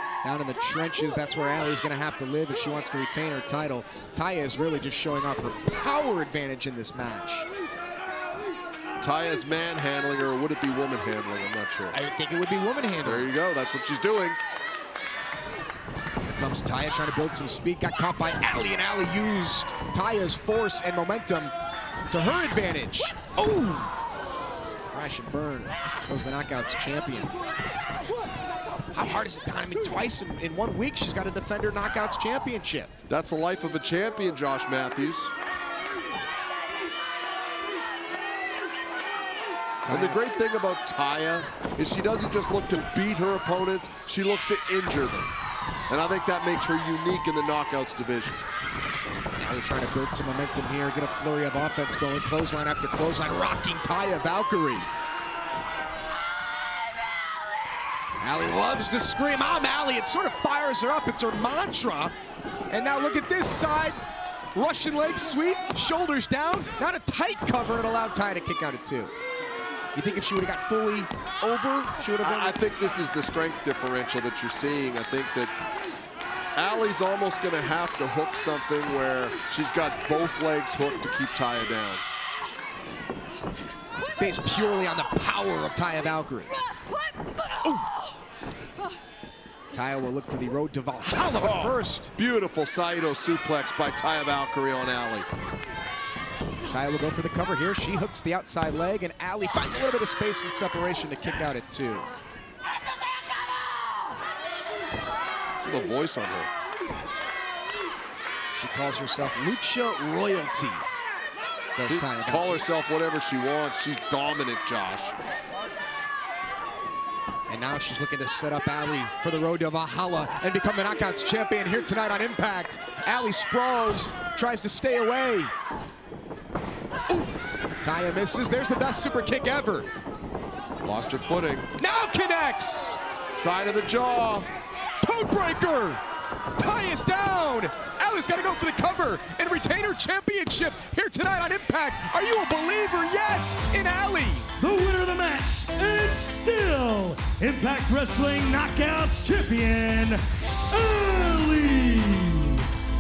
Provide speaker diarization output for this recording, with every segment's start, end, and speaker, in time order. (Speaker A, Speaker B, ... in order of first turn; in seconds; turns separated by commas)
Speaker A: 0.2-7.5, Speaker B: 9.0-12.0, Speaker A: 11.9-13.3, Speaker B: 13.0-14.4, Speaker A: 16.2-21.5, Speaker A: 22.1-23.9, Speaker A: 24.9-27.3, Speaker A: 28.9-32.9, Speaker B: 33.1-35.3, Speaker A: 39.8-40.2, Speaker B: 39.9-45.3, Speaker B: 45.9-48.4, Speaker A: 49.4-54.9, Speaker A: 58.2-62.1, Speaker A: 62.7-64.0, Speaker A: 64.5-69.1, Speaker A: 69.9-72.6, Speaker B: 72.2-75.5, Speaker B: 76.6-82.0, Speaker A: 84.2-86.5, Speaker A: 89.7-92.1, Speaker B: 91.4-95.3, Speaker A: 96.6-102.1, Speaker B: 105.6-106.5, Speaker A: 108.5-110.8, Speaker A: 111.8-112.7, Speaker B: 111.9-115.2, Speaker A: 117.5-125.5, Speaker A: 127.8-129.9, Speaker B: 130.8-131.7, Speaker A: 131.8-133.0, Speaker B: 133.3-134.5, Speaker A: 135.0-136.0, Speaker A: 136.6-144.5, Speaker C: 144.6-152.7